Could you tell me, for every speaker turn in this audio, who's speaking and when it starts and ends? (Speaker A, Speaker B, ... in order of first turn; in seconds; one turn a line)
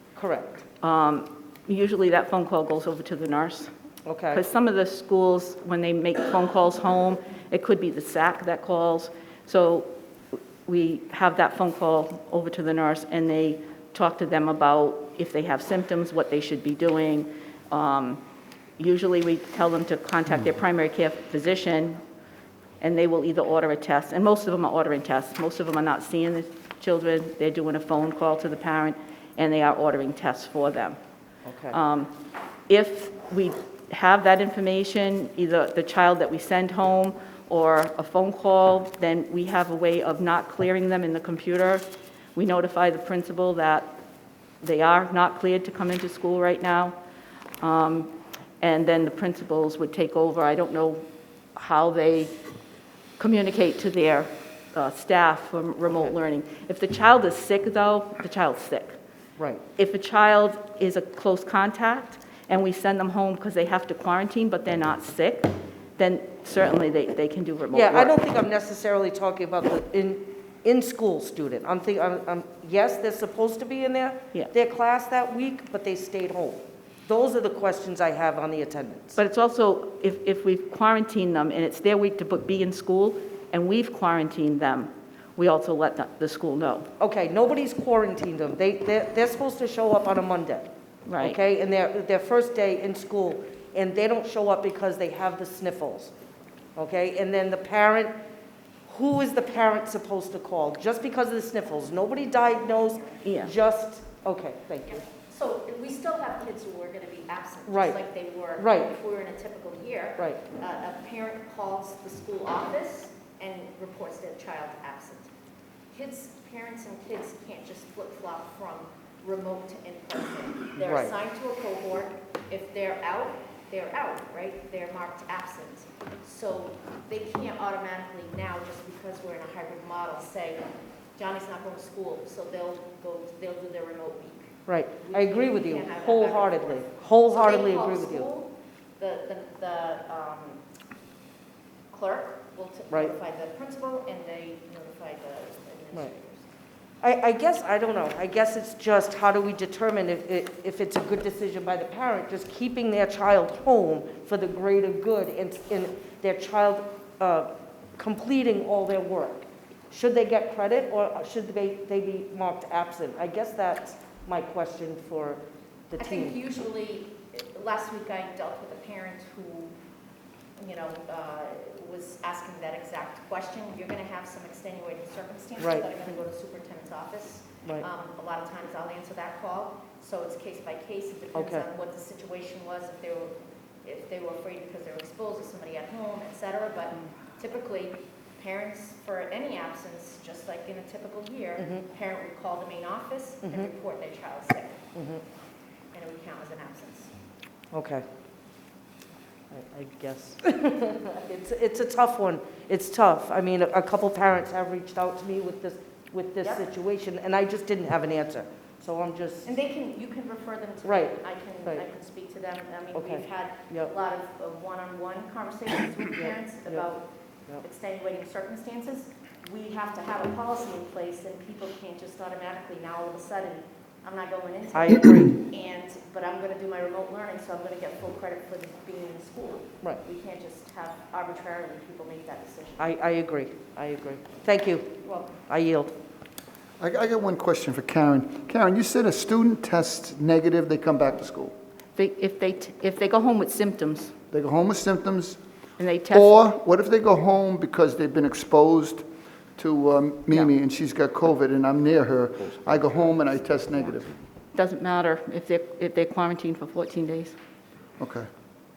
Speaker A: 0.1-0.6
Speaker B: 0.8-3.7
Speaker A: 4.0-4.4
Speaker B: 4.3-9.9
Speaker B: 10.7-18.2
Speaker B: 18.8-22.0
Speaker B: 22.8-31.0
Speaker A: 31.4-31.8
Speaker B: 31.7-32.1
Speaker B: 32.7-43.9
Speaker B: 44.6-47.0
Speaker B: 47.6-52.3
Speaker B: 53.2-59.0
Speaker A: 59.4-59.6
Speaker B: 59.8-68.1
Speaker A: 67.7-79.2
Speaker B: 79.2-86.9
Speaker A: 87.0-90.7
Speaker B: 91.0-91.4
Speaker A: 91.2-96.1
Speaker A: 96.8-98.1
Speaker A: 98.9-105.1
Speaker C: 102.3-103.3
Speaker B: 103.2-103.5
Speaker C: 104.9-115.3
Speaker A: 107.7-108.0
Speaker A: 108.6-108.9
Speaker A: 110.2-110.4
Speaker C: 115.9-130.6
Speaker A: 120.8-121.1
Speaker C: 131.2-140.6
Speaker A: 134.7-138.3
Speaker C: 141.9-146.5
Speaker A: 147.0-166.3
Speaker C: 166.0-169.7
Speaker C: 170.6-194.8
Speaker A: 175.6-175.9
Speaker A: 181.3-181.7
Speaker A: 191.6-191.8
Speaker A: 193.4-193.7
Speaker A: 194.9-195.2
Speaker C: 195.9-197.1
Speaker A: 197.7-198.1
Speaker A: 199.5-209.5
Speaker C: 209.4-217.1
Speaker A: 210.8-211.8
Speaker A: 212.9-213.9
Speaker A: 216.1-216.9
Speaker C: 217.6-232.9
Speaker A: 224.7-225.4
Speaker A: 232.8-234.9
Speaker C: 235.0-235.3
Speaker A: 235.5-235.9
Speaker D: 236.8-241.5
Speaker B: 241.9-244.1
Speaker D: 244.3-245.4
Speaker B: 245.8-246.4
Speaker D: 246.1-249.0
Speaker D: 249.6-254.2
Speaker B: 254.5-257.4
Speaker D: 258.0-258.2